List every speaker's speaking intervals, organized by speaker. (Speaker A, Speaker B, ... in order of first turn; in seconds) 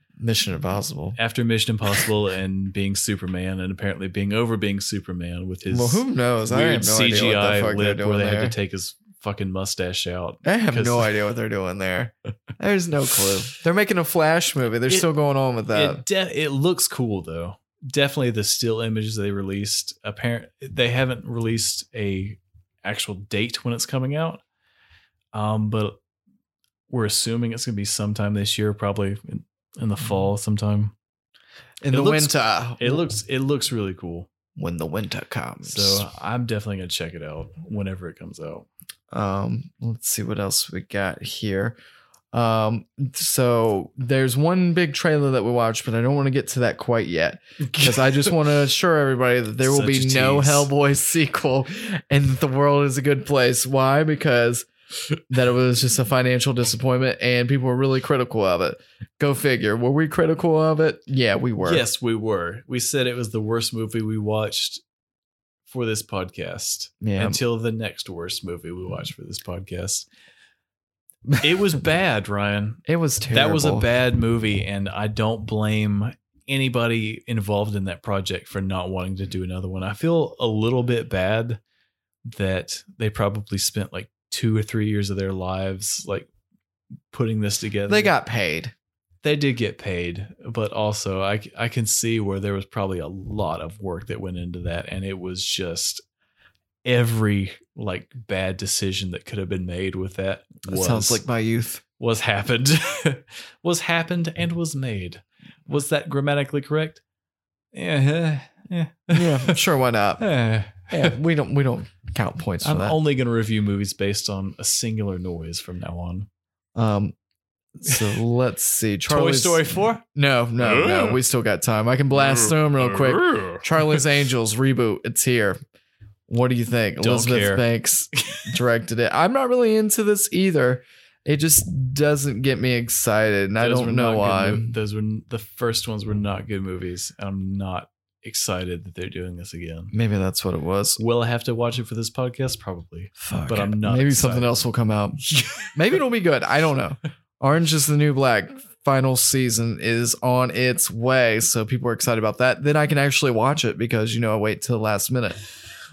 Speaker A: 0.2-1.2, 5.7-8.6, 10.4-16.0, 31.8-33.0, 34.6-36.1, 39.1-41.8, 42.3-54.7, 55.3-61.9, 67.0-67.4, 72.9-73.9, 87.9-88.7, 100.7-101.8, 109.1-110.3, 110.9-113.0, 116.8-117.2, 117.8-119.6, 120.2-125.6, 126.3-134.8, 139.9-141.0, 143.2-155.4
Speaker B: 1.2-11.1, 15.7-24.4, 25.3-26.0, 26.9-30.9, 31.9-34.3, 35.6-38.7, 47.7-48.3, 49.6-50.7, 61.6-64.8, 65.7-70.1, 71.4-81.6, 82.2-86.3, 87.1-88.1, 89.2-96.0, 96.8-101.2, 102.0-107.0, 107.7-109.6, 110.2-111.2, 112.6-116.3, 117.9-118.2, 119.1-120.0, 120.6-121.2, 122.1-123.6, 127.0-127.7, 133.6-139.9, 141.0-144.6